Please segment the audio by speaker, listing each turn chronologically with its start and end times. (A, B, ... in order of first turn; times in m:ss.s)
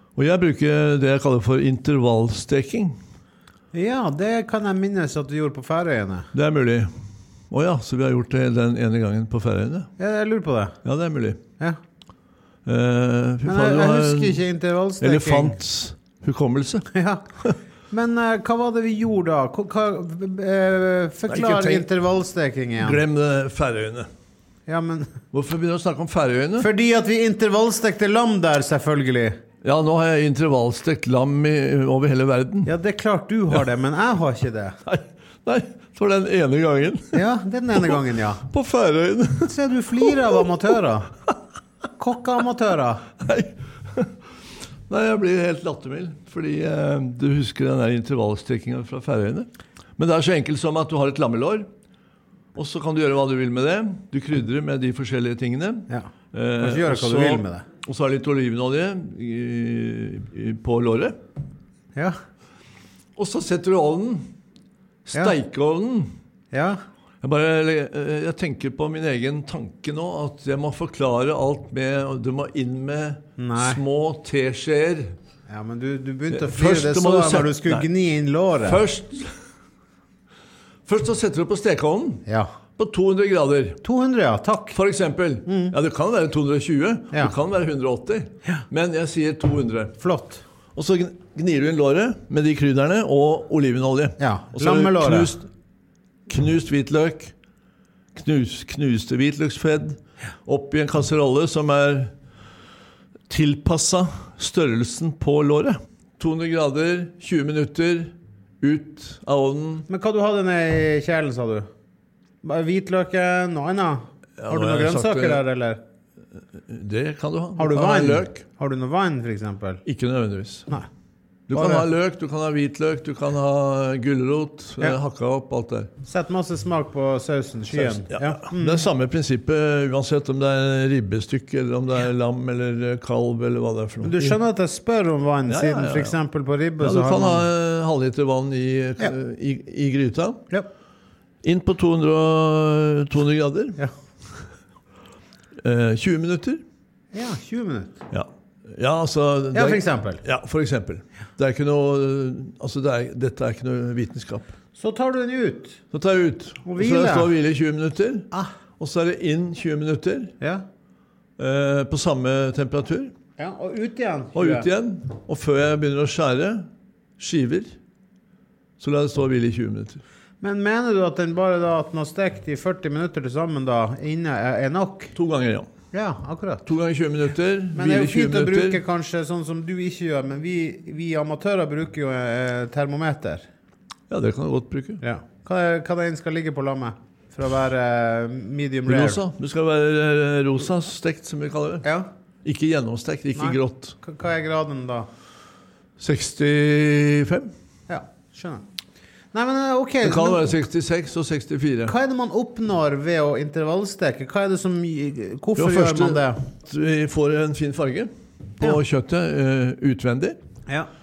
0:00.2-0:03.0 A
0:03.7-0:06.3 B
0:06.3-0:06.9 A
0:07.5-0:09.9 A
0:10.0-0:10.8 B
0:10.8-0:11.4 A
0:12.6-0:14.4 A
0:13.4-0:15.6 B
0:15.0-0:16.9 A
0:16.9-0:17.2 B
0:17.9-0:23.0 B
0:21.3-0:21.9 A
0:22.8-0:24.1 A
0:24.7-0:25.2 B
0:25.3-0:26.7 A
0:26.6-0:29.4 B
0:29.6-0:32.7 A
0:32.6-0:34.8 B
0:34.8-0:37.2 A
0:37.1-0:38.4 B
0:37.7-0:40.4 A
0:39.4-0:41.1 B
0:42.0-0:43.1 B
0:43.2-0:44.2 A
0:44.9-0:51.7 A
0:52.5-1:01.2 A
0:55.9-0:57.6 B
1:03.2-1:04.3 A
1:05.0-1:06.1 A
1:06.5-1:06.8 B
1:07.2-1:15.2 A
1:13.4-1:13.8 B
1:15.5-1:18.8 B
1:16.3-1:17.9 A
1:18.6-1:19.3 A
1:20.8-1:22.2 A
1:22.2-1:22.5 B
1:22.8-1:23.8 A
1:23.8-1:24.8 B
1:24.7-1:30.0 A
1:25.4-1:25.7 B
1:30.0-1:30.4 B
1:30.7-1:35.5 A
1:34.2-1:35.4 B
1:36.3-1:37.3 A
1:38.1-1:42.1 A
1:43.3-1:49.9 A
1:49.9-1:51.7 B
1:52.4-1:55.8 B
1:54.4-1:55.4 A
1:56.6-1:58.4 A
1:57.6-1:59.8 B
1:59.8-2:00.7 A
2:01.5-2:05.9 A
2:01.5-2:01.8 B
2:06.0-2:08.8 B
2:07.7-2:14.4 A
2:14.0-2:17.5 B
2:15.5-2:16.2 A
2:16.8-2:20.4 A
2:21.4-2:23.8 A
2:25.6-2:26.6 A
2:27.1-2:28.0 B
2:28.1-2:34.5 A
2:29.5-2:30.2 B
2:34.7-2:35.8 B
2:35.9-2:40.3 A
2:36.6-2:37.3 B
2:40.4-2:40.6 B
2:41.4-2:43.1 A
2:43.4-2:44.7 B
2:44.3-2:47.8 A
2:48.8-2:50.0 A
2:50.4-2:55.1 B
2:55.1-2:55.7 A
2:55.9-2:56.7 B
2:56.6-2:58.8 A
2:57.7-3:03.5 B
3:04.1-3:05.0 A
3:05.0-3:09.2 B
3:08.9-3:11.9 A
3:11.8-3:12.1 B
3:12.4-3:14.0 A
3:13.3-3:15.1 B
3:16.0-3:17.5 A
3:17.9-3:18.6 B
3:19.3-3:20.6 B
3:20.0-3:21.9 A
3:21.8-3:26.4 B
3:25.6-3:30.4 A